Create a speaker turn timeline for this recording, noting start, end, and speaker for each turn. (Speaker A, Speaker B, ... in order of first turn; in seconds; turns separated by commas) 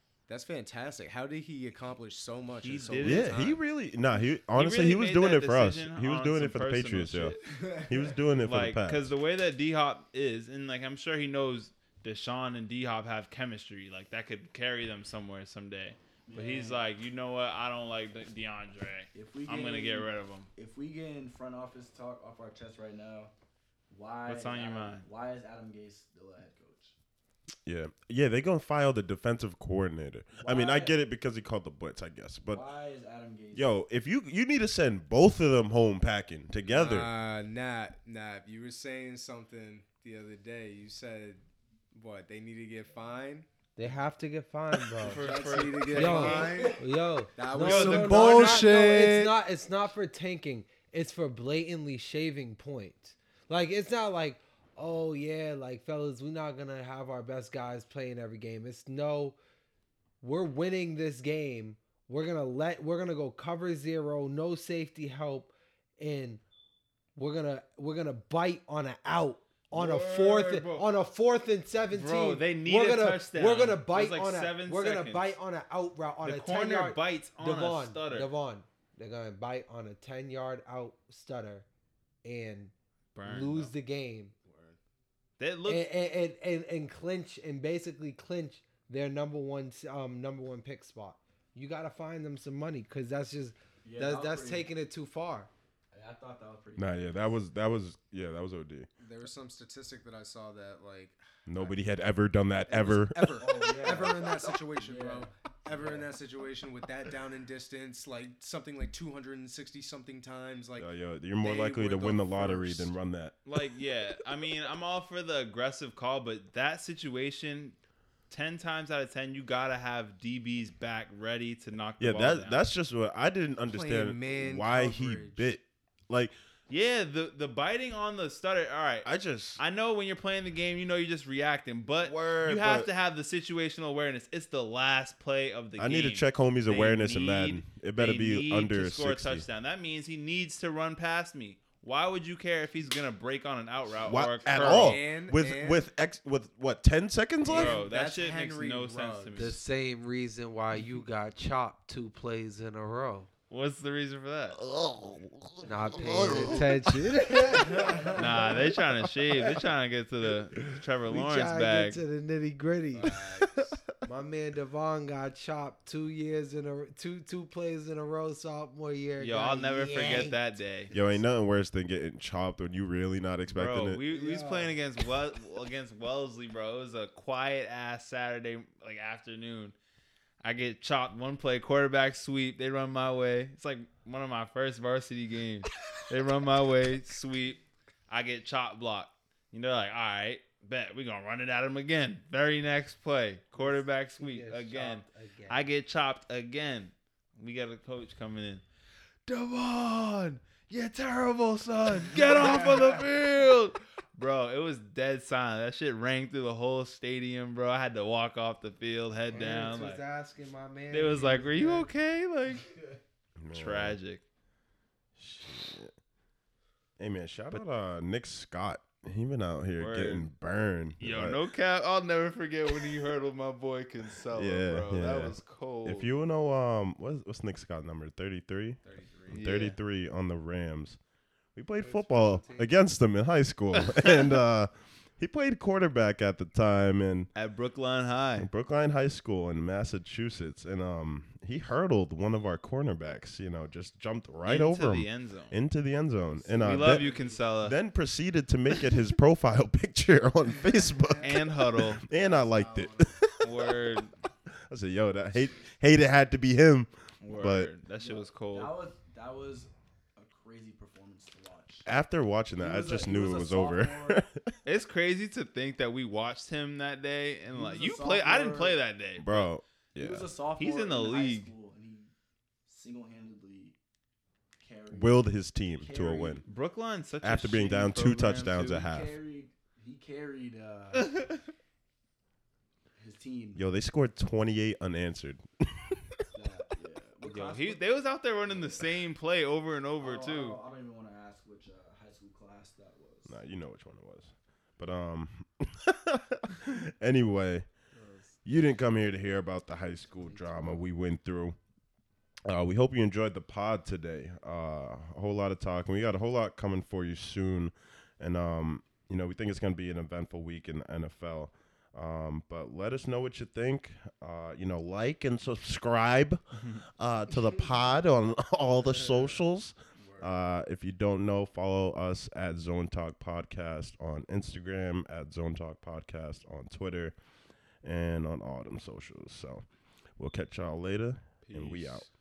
Speaker A: 0.3-3.6, Speaker B: 2.5-3.5, Speaker C: 2.9-9.1, Speaker B: 4.5-7.4, Speaker A: 7.4-8.2, Speaker B: 8.4-20.5, Speaker D: 16.3-16.8, Speaker D: 19.1-23.3, Speaker D: 23.9-26.9, Speaker B: 24.3-25.1, Speaker C: 27.6-32.7, Speaker D: 30.3-31.0, Speaker D: 32.5-33.8, Speaker C: 33.5-37.1, Speaker A: 36.6-43.5, Speaker E: 43.8-45.3, Speaker A: 44.9-49.3, Speaker B: 45.0-46.7, Speaker E: 45.9-59.4, Speaker B: 47.5-48.7, Speaker E: 60.2-66.4, Speaker E: 67.2-81.7, Speaker B: 69.7-70.9, Speaker B: 71.9-75.4, Speaker B: 76.2-78.3, Speaker E: 82.2-82.7, Speaker B: 83.1-83.7, Speaker E: 83.2-84.3, Speaker A: 84.4-84.8, Speaker B: 85.4-85.9, Speaker E: 85.7-95.5, Speaker D: 93.8-94.7, Speaker D: 95.9-97.3, Speaker C: 96.8-98.9, Speaker A: 99.0-101.8, Speaker C: 101.5-103.5, Speaker A: 102.7-112.9, Speaker D: 103.4-106.1, Speaker C: 110.8-113.4, Speaker B: 113.5-117.8, Speaker B: 118.3-122.6, Speaker C: 122.0-126.3, Speaker A: 123.6-125.5, Speaker B: 126.7-145.0, Speaker C: 129.0-129.6, Speaker C: 132.0-132.9, Speaker C: 135.8-139.4, Speaker C: 144.0-147.8, Speaker A: 144.4-145.8, Speaker B: 147.4-149.6, Speaker A: 147.5-149.5, Speaker E: 149.3-153.3, Speaker B: 153.5-154.6, Speaker C: 154.5-157.4, Speaker E: 155.6-158.5, Speaker A: 157.6-158.5, Speaker B: 158.1-162.0, Speaker E: 161.1-163.2, Speaker A: 162.9-163.8, Speaker E: 164.0-170.4, Speaker B: 169.2-170.9, Speaker C: 170.9-174.0, Speaker A: 170.9-171.3, Speaker B: 173.5-179.8, Speaker E: 174.1-174.8, Speaker B: 180.4-198.6, Speaker E: 193.5-195.7, Speaker B: 199.2-210.0, Speaker A: 202.4-202.8, Speaker E: 209.3-211.9, Speaker A: 209.3-209.7, Speaker B: 210.9-212.7, Speaker C: 213.4-214.0, Speaker B: 213.5-214.2, Speaker C: 215.2-215.9, Speaker C: 217.0-221.4, Speaker B: 219.8-220.3, Speaker B: 221.0-226.1, Speaker C: 224.3-237.3, Speaker A: 228.8-229.4, Speaker B: 229.3-229.8, Speaker E: 231.8-232.4, Speaker A: 231.9-232.7, Speaker B: 237.3-238.5, Speaker C: 238.3-247.0, Speaker B: 244.4-245.6, Speaker D: 246.4-247.4, Speaker B: 246.6-247.8, Speaker C: 247.6-253.9, Speaker B: 251.2-252.0, Speaker A: 252.1-253.1, Speaker B: 253.4-254.1, Speaker C: 254.7-257.7, Speaker B: 257.2-258.7, Speaker D: 257.9-261.9, Speaker C: 261.9-264.5, Speaker D: 262.6-264.2, Speaker B: 264.6-269.5, Speaker D: 267.5-268.8, Speaker C: 269.2-270.3, Speaker D: 269.9-272.1, Speaker B: 270.6-271.5, Speaker D: 272.6-273.8, Speaker D: 274.6-276.4, Speaker C: 274.9-276.4, Speaker B: 276.4-278.8, Speaker C: 277.2-279.2, Speaker D: 278.6-281.1, Speaker B: 281.1-281.4, Speaker D: 282.9-283.6, Speaker C: 283.5-286.2, Speaker D: 286.3-287.8, Speaker B: 287.2-290.6, Speaker D: 290.0-293.4, Speaker C: 293.2-297.7, Speaker C: 298.4-301.6, Speaker D: 300.3-300.8, Speaker C: 302.4-327.2, Speaker B: 316.6-316.8, Speaker A: 319.0-319.4, Speaker A: 319.9-320.3, Speaker C: 327.7-332.1, Speaker B: 331.4-332.0